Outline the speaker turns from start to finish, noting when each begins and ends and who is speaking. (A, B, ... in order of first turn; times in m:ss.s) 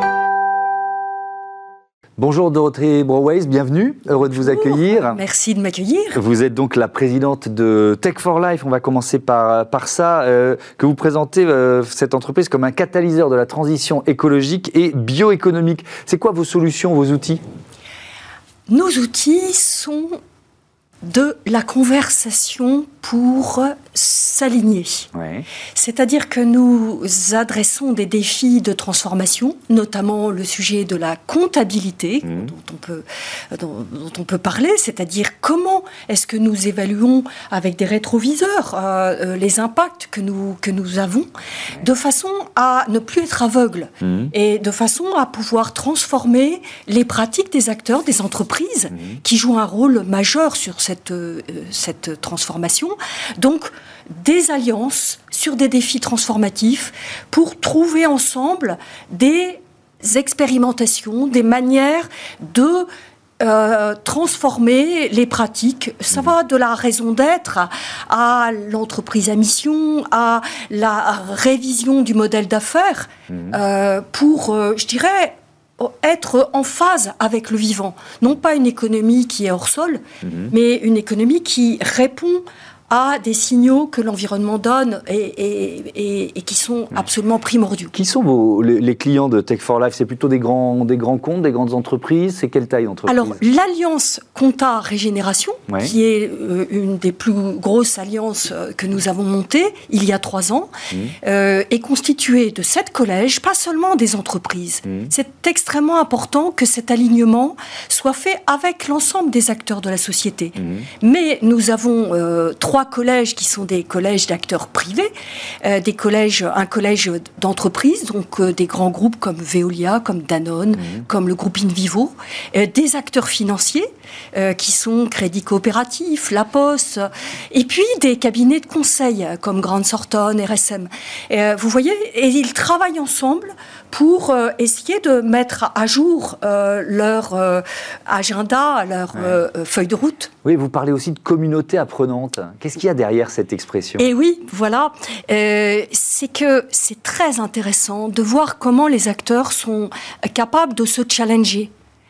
0:02.2-0:05.2 A
0:04.2-0:06.2 B
0:06.1-0:17.4 A
0:18.7-0:20.2 B
0:21.0-0:25.1 B
0:25.1-0:25.5 A
0:25.7-0:41.3 B
0:32.2-0:32.5 A
0:41.8-1:02.9 B
0:44.0-0:44.3 A
0:48.9-0:49.2 A
1:03.4-1:27.9 B
1:20.2-1:20.5 A
1:27.9-1:33.4 A
1:33.1-1:55.1 B
1:35.7-1:35.9 A
1:44.8-1:45.1 A
1:50.6-1:50.9 A
1:55.6-2:20.3 B
2:20.4-2:24.1 A
2:24.0-2:31.7 B